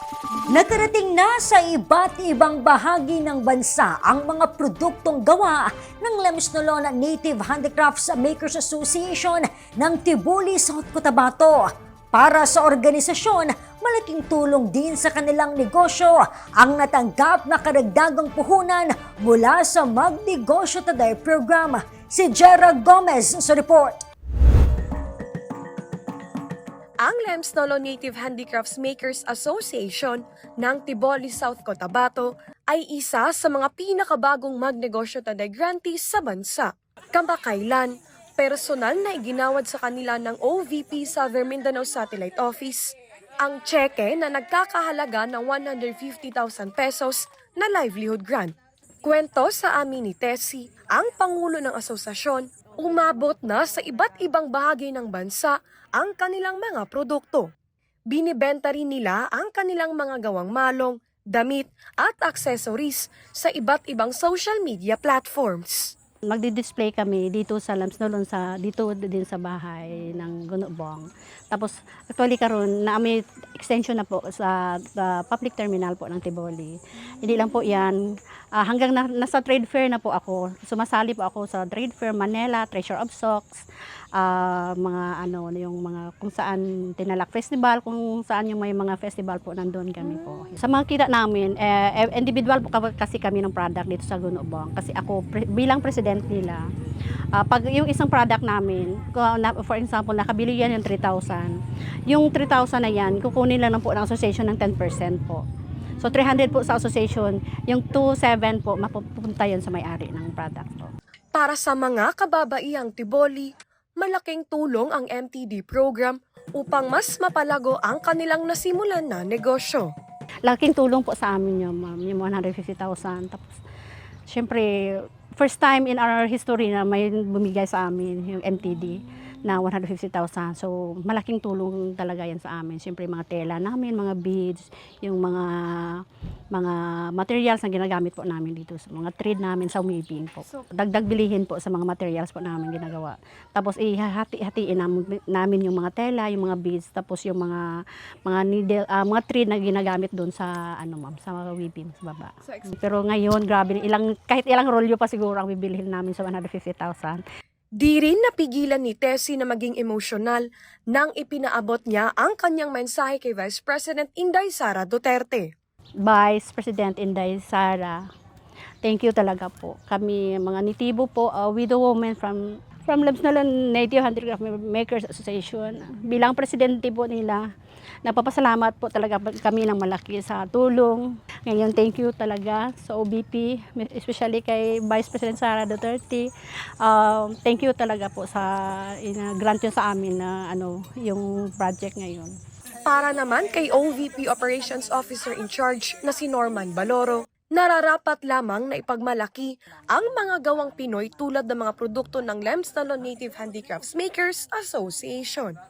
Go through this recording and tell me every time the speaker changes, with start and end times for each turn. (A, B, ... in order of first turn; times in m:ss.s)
0:00.5-0:24.0 A
0:27.0-0:57.5 B
0:58.1-1:05.9 B
1:06.3-1:17.9 C
1:18.6-1:23.6 C
1:24.2-1:36.6 C
1:37.3-1:41.6 C
1:42.1-1:45.4 C
1:46.0-1:50.9 C
1:51.3-1:59.9 B
2:00.4-2:03.6 C
2:04.3-2:27.6 C
2:28.2-2:37.2 C
2:37.8-2:45.5 B
2:46.0-2:48.0 C
2:48.8-2:57.5 C
2:58.0-3:06.3 C
3:06.8-3:12.4 C
3:12.8-3:25.5 B